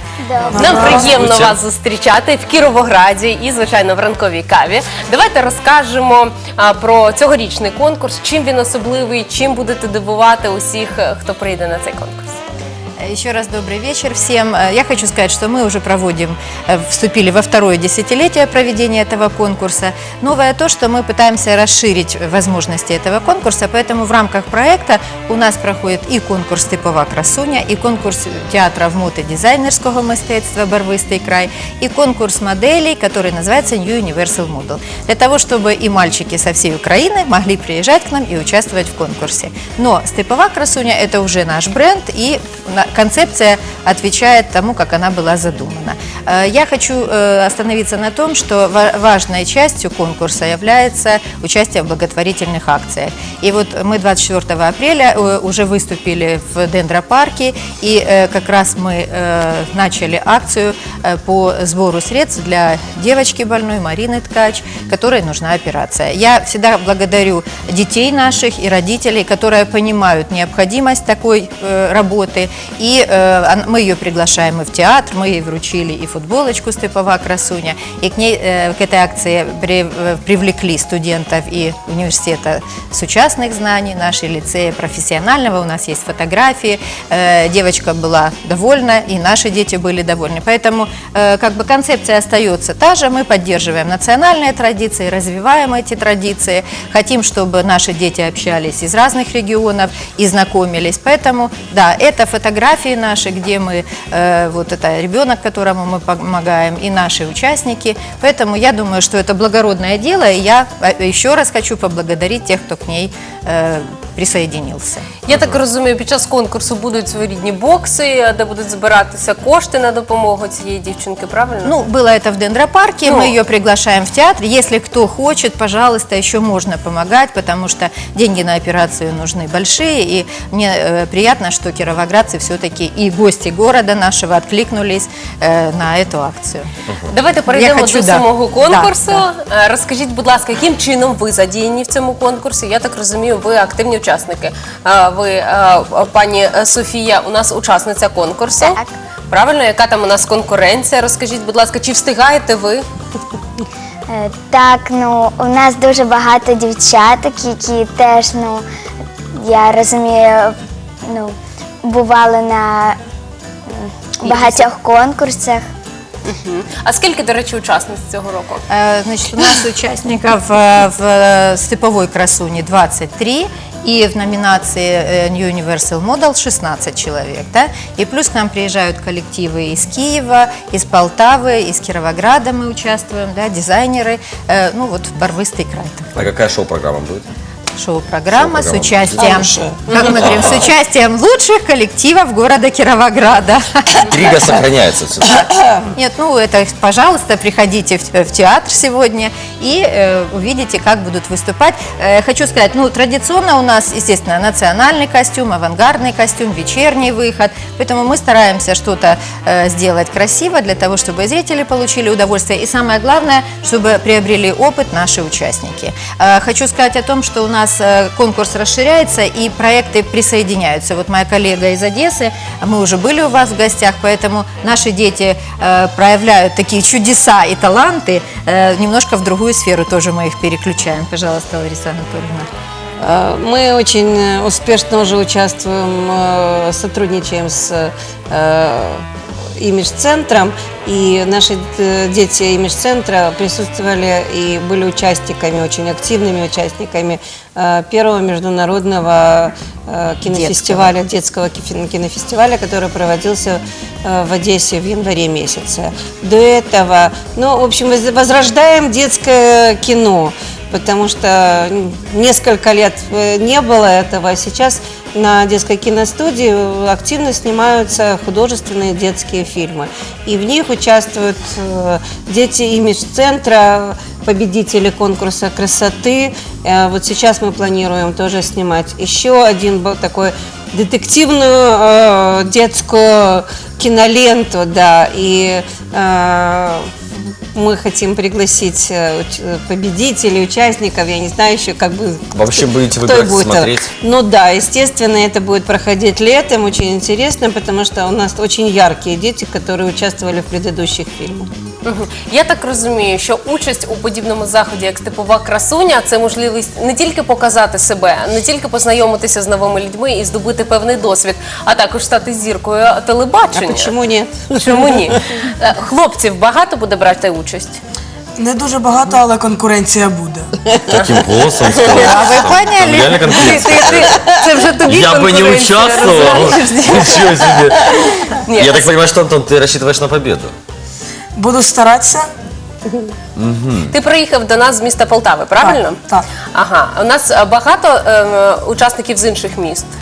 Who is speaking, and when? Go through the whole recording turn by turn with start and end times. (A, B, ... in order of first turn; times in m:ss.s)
0:00.2-0:01.0 A
0:00.5-0:12.4 B
0:00.5-0:01.1 C
0:01.0-0:01.6 D
0:13.0-1:55.1 E
1:55.2-2:01.8 B
1:55.3-1:55.6 D
2:01.6-2:16.7 E
2:03.1-2:03.3 B
2:17.1-2:32.8 B
2:17.5-2:19.2 E
2:34.1-2:38.7 A
2:39.3-2:43.0 A
2:43.7-2:45.7 A
2:44.2-2:44.6 B
2:46.2-2:48.6 B
2:48.7-3:06.3 E
3:06.2-3:07.3 D
3:07.8-3:14.7 E
3:08.3-3:09.4 D
3:10.2-3:10.6 D
3:14.0-3:15.5 D
3:15.4-3:15.7 F
3:16.0-3:52.5 E
3:53.0-3:59.1 F
3:59.6-4:46.9 F
4:10.3-4:10.9 E
4:47.5-5:01.5 F
4:52.3-4:53.9 D
5:01.8-5:14.0 B
5:13.5-5:15.2 F
5:14.6-5:17.8 B
5:18.4-5:20.5 C
5:20.9-5:24.2 D
5:21.9-5:23.5 E
5:23.3-5:28.9 B
5:24.8-5:30.5 D
5:31.4-5:32.3 C
5:33.4-5:33.9 D
5:33.9-5:39.9 B
5:35.6-5:36.2 C